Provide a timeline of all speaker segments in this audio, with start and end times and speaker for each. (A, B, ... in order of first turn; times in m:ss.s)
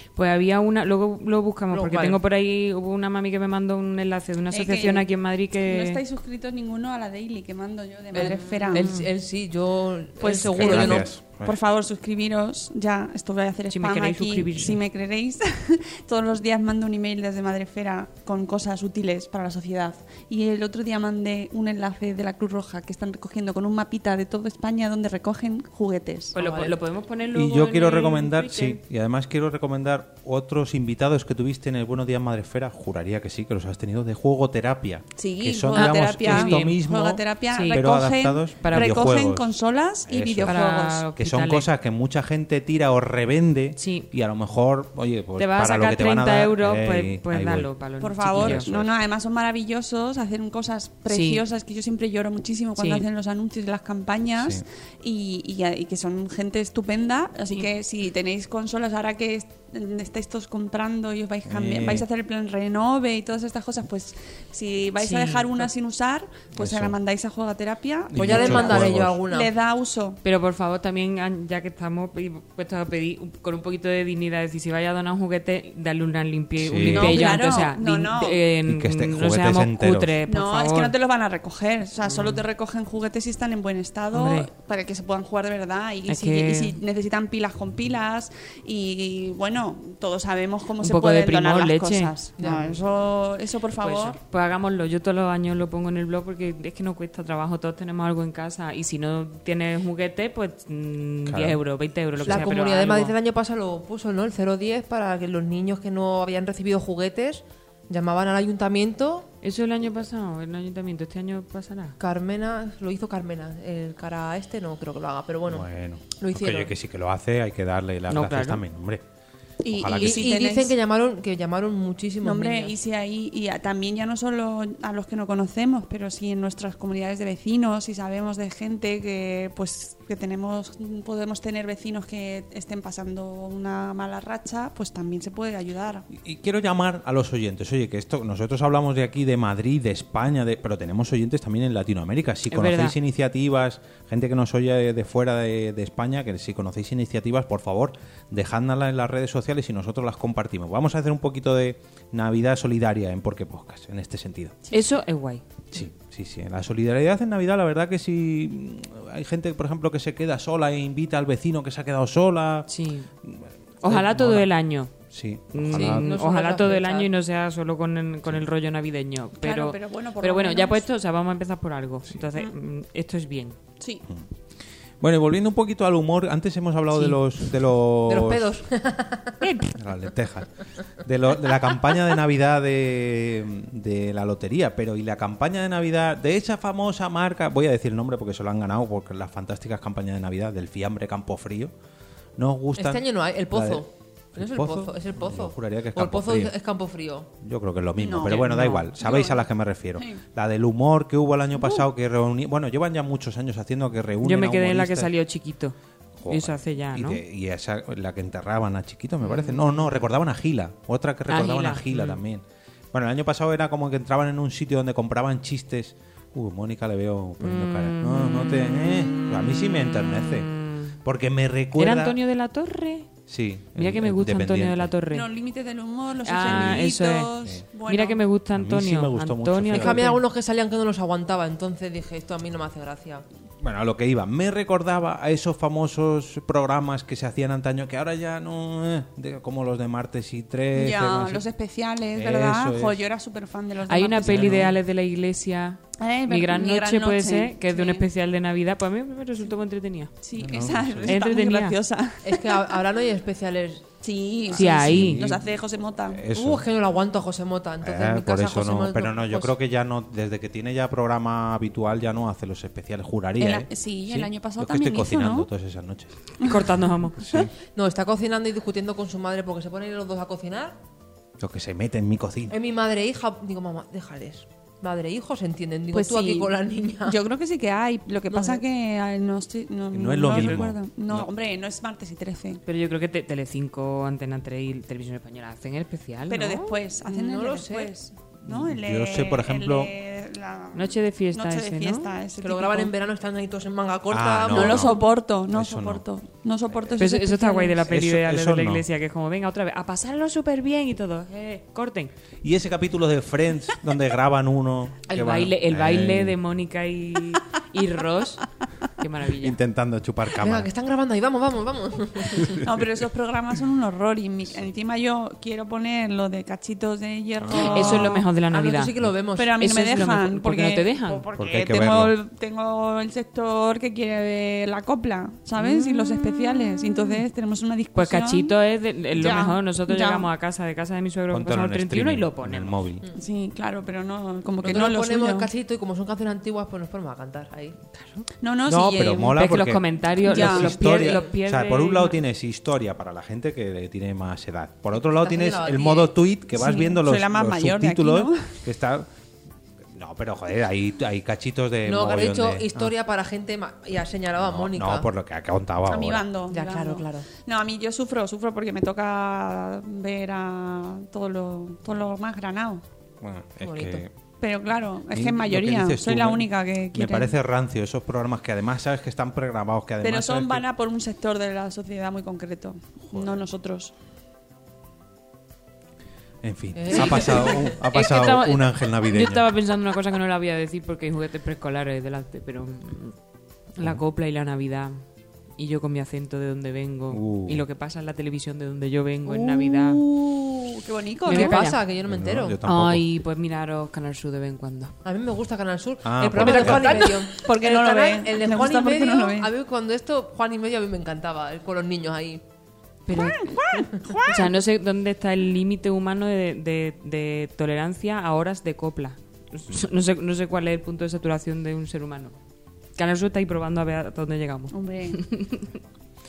0:00.2-0:06.0 A
0:01.7-0:02.2 B
0:04.5-0:08.9 C
0:08.1-0:11.1 B
0:08.2-0:09.1 A
0:10.2-0:26.4 C
0:10.4-0:11.6 D
0:13.7-0:14.8 A
0:26.3-0:28.8 A
0:26.4-0:26.7 B
0:27.3-0:39.5 D
0:35.2-0:41.1 C
0:35.7-0:36.8 A
0:37.5-0:37.8 A
0:38.6-0:39.1 A
0:40.1-0:40.6 D
0:40.4-0:41.7 A
0:41.2-0:48.9 D
0:43.8-0:44.1 A
0:45.4-0:48.7 A
0:48.0-1:10.2 C
0:51.1-0:51.4 A
0:52.8-0:53.0 A
0:54.4-0:54.6 D
1:01.5-1:02.1 D
1:05.0-1:05.7 A
1:06.6-1:07.0 D
1:08.1-1:09.2 D
1:08.1-1:09.5 B
1:10.2-1:20.9 A
1:16.6-1:17.4 D
1:16.9-1:18.4 C
1:18.7-1:20.1 D
1:20.3-1:34.2 C
1:22.0-1:22.4 A
1:24.1-1:24.5 A
1:26.1-1:26.8 A
1:30.8-1:32.1 A
1:32.4-1:32.8 B
1:33.8-1:43.2 A
1:41.3-1:41.6 D
1:42.2-1:42.5 D
1:42.2-1:49.3 B
1:49.4-1:52.0 A
1:52.0-1:56.7 B
1:55.5-1:59.0 D
1:58.1-1:58.6 A
1:59.6-2:00.7 C
1:59.7-2:00.3 D
2:00.0-2:02.8 B
2:02.2-2:16.0 C
2:16.1-2:34.6 D
2:22.5-2:23.0 A
2:34.7-2:35.4 A
2:35.7-2:42.7 D
2:42.7-2:43.1 A
2:43.2-2:46.1 D
2:43.8-2:44.9 A
2:45.5-2:53.6 A
2:45.7-2:47.1 B
2:49.4-2:50.8 C
2:55.0-2:58.5 D
2:58.1-2:59.4 B
2:59.4-2:59.8 A
2:59.8-3:11.7 D
3:12.4-3:13.8 D
3:12.8-3:17.3 B
3:14.4-3:16.5 D
3:17.4-3:25.1 D
3:18.0-3:20.2 C
3:18.2-3:18.9 A
3:24.2-3:25.8 A
3:26.2-3:42.2 D
3:26.3-3:27.2 A
3:29.2-3:29.6 A
3:31.3-3:32.2 A
3:37.4-3:40.9 A
3:41.8-3:43.1 A
3:43.3-3:44.9 D
3:43.8-3:45.3 A
3:45.1-3:48.2 C
3:46.2-3:47.3 A
3:46.4-3:46.8 D
3:47.8-3:50.2 A
3:48.5-3:50.0 D
3:49.7-3:53.2 B
3:53.6-4:01.4 D
4:00.7-4:04.7 C
4:02.2-4:03.0 D
4:03.9-4:10.1 A
4:04.2-4:04.8 D
4:06.0-4:08.1 C
4:10.2-4:12.8 C
4:10.4-4:11.1 D
4:11.1-4:11.8 A
4:12.2-4:13.9 B
4:14.0-4:16.2 C
4:14.5-4:15.5 D
4:14.5-4:15.2 A
4:16.1-4:16.6 D
4:16.3-4:19.6 B
4:17.8-4:26.1 D
4:23.4-4:25.5 C
4:26.4-4:27.2 A
4:27.2-4:27.5 D
4:27.8-4:30.8 B
4:31.4-4:32.6 D
4:32.5-4:37.2 B
4:35.9-4:42.6 C
4:38.3-4:38.6 B
4:39.9-4:41.3 D
4:40.3-4:40.6 A
4:42.7-4:46.8 A
4:46.3-4:52.9 C
4:47.0-4:47.9 B
4:48.5-4:49.9 D
4:50.8-4:52.1 A
4:52.4-4:55.0 B
4:54.1-4:56.0 D
4:54.5-4:57.8 C
4:56.7-4:57.0 D
4:57.0-5:02.1 A
4:57.9-4:58.8 D
5:02.4-5:06.4 D
5:05.1-5:08.4 A
5:09.0-5:09.6 A
5:09.4-5:10.7 D
5:10.4-5:12.6 B
5:12.6-5:18.3 C
5:17.4-5:18.1 D
5:17.7-5:18.9 A
5:17.9-5:19.6 B
5:19.4-5:28.5 C
5:19.6-5:21.2 A
5:21.4-5:22.1 D
5:25.6-5:26.2 A
5:28.0-5:32.8 A
5:29.2-5:30.3 C
5:31.3-5:33.1 D
5:33.2-5:35.5 C
5:34.6-5:37.8 B
5:38.0-5:38.3 A
5:38.4-5:39.4 C
5:38.7-5:49.1 D
5:39.3-5:42.2 A
5:40.2-5:41.2 C
5:44.9-5:46.2 B
5:46.5-5:48.6 C
5:49.9-5:52.9 D
5:51.8-5:55.1 B
5:54.4-5:56.2 D
5:55.9-6:02.8 C
5:56.5-5:57.3 B
6:03.2-6:04.1 D
6:03.6-6:04.0 B
6:04.4-6:07.4 C
6:05.1-6:10.6 D
6:10.0-6:13.9 C
6:13.1-6:13.4 D
6:16.4-6:19.5 D
6:16.7-6:17.8 B
6:17.9-6:23.2 A
6:23.8-6:25.0 A
6:25.6-6:30.0 A
6:27.1-6:27.6 D
6:29.3-6:30.7 B
6:30.7-6:31.6 C
6:31.3-6:32.6 B
6:31.3-6:31.8 A
6:32.1-6:33.0 D
6:32.6-6:34.9 A
6:35.0-6:42.4 B
6:36.0-6:37.1 D
6:36.4-6:39.5 C
6:43.1-6:43.4 A
6:43.1-6:44.6 C
6:44.3-6:52.4 A
6:53.0-6:55.7 A
6:54.7-6:55.2 C